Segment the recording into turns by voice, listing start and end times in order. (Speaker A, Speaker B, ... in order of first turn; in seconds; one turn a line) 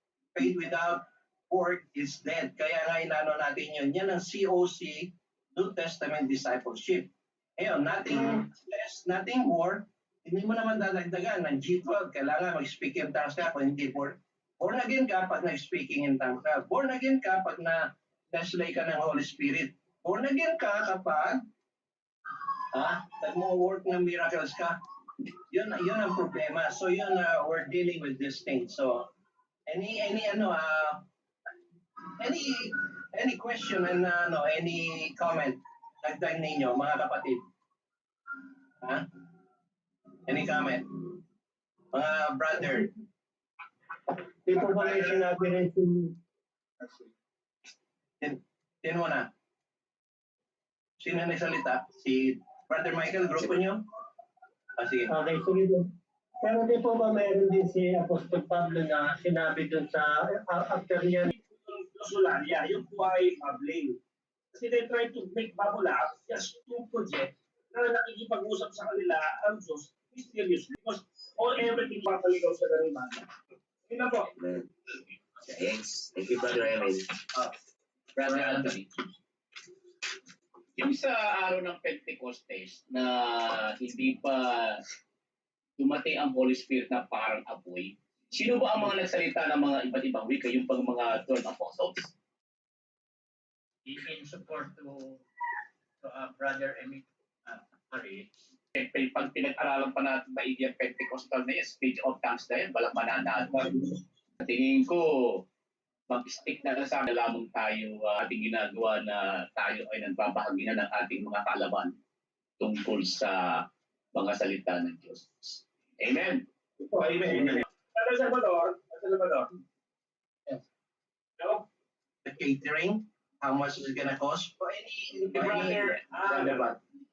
Speaker A: 0.3-21.4
Speaker A: 22.7-24.8
Speaker A: 25.5-29.1
Speaker A: 29.7-31.0
Speaker A: 32.2-37.4
Speaker A: 40.3-41.1
Speaker A: 41.9-42.9
Speaker B: 44.5-46.1
Speaker B: 46.8-47.1
Speaker A: 48.2-49.3
Speaker A: 51.0-53.8
Speaker A: 54.8-55.1
Speaker B: 55.1-55.9
Speaker B: 56.4-61.3
Speaker C: 61.3-64.0
Speaker C: 64.5-73.2
Speaker C: 73.9-74.3
Speaker D: 74.4-74.7
Speaker D: 75.5-77.2
Speaker E: 78.2-78.9
Speaker A: 78.2-78.6
Speaker E: 80.8-84.8
Speaker E: 85.8-92.1
Speaker F: 93.8-95.2
Speaker F: 96.0-98.3
Speaker E: 98.7-105.4
Speaker E: 106.1-111.9
Speaker E: 112.6-116.4
Speaker B: 116.9-117.4
Speaker C: 117.1-119.5
Speaker C: 121.4-121.6
Speaker A: 122.2-126.8
Speaker E: 125.3-126.0
Speaker C: 125.3-126.7